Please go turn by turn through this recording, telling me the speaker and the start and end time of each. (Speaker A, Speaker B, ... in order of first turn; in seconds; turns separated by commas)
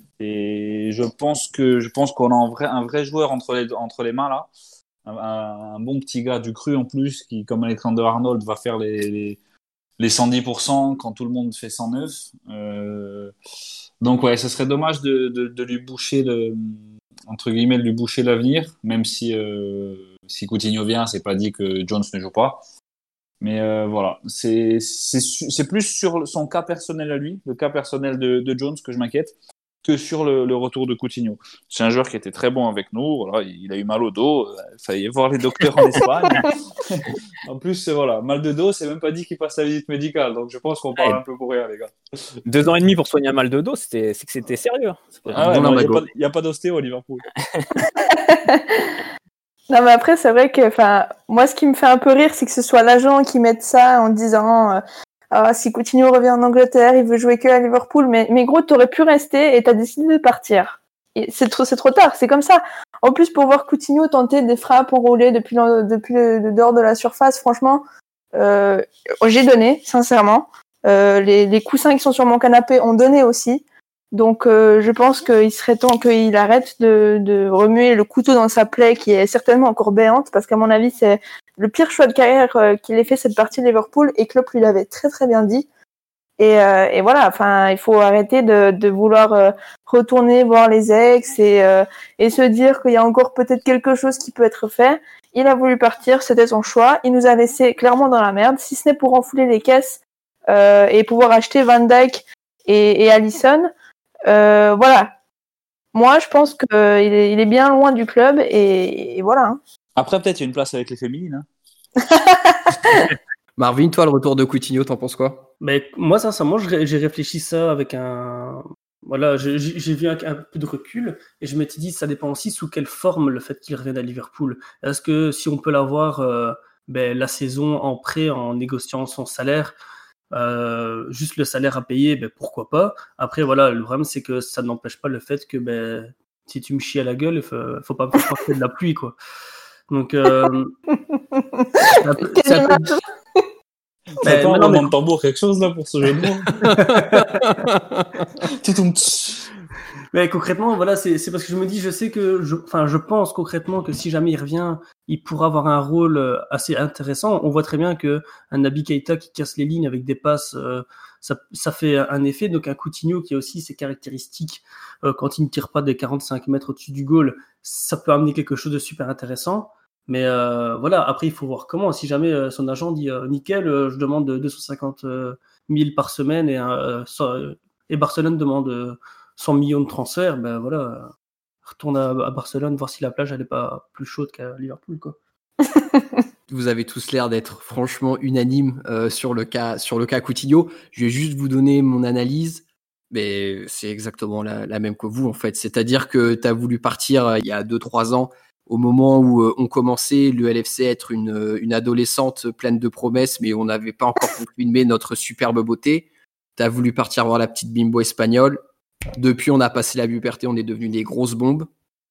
Speaker A: 0.2-4.5, Speaker A: 5.1-9.4, Speaker A: 10.0-13.3, Speaker A: 14.0-22.6, Speaker A: 23.4-41.9, Speaker B: 42.5-45.5, Speaker C: 45.3-46.0, Speaker A: 45.3-47.3, Speaker D: 48.0-49.0, Speaker D: 49.7-67.8, Speaker D: 68.3-85.7, Speaker D: 86.4-103.7, Speaker D: 104.3-105.1, Speaker D: 105.9-109.6, Speaker A: 110.0-111.5, Speaker D: 112.0-113.0, Speaker C: 113.6-115.5, Speaker E: 115.6-129.8, Speaker E: 130.3-139.2, Speaker E: 139.9-140.7, Speaker D: 140.9-143.4, Speaker E: 141.9-142.9, Speaker A: 144.2-146.6, Speaker E: 144.2-144.9, Speaker E: 146.6-147.4, Speaker C: 146.6-148.1, Speaker A: 148.5-149.5, Speaker E: 150.1-181.1, Speaker E: 181.7-185.2, Speaker D: 185.6-186.2, Speaker C: 186.5-208.6, Speaker C: 209.1-211.7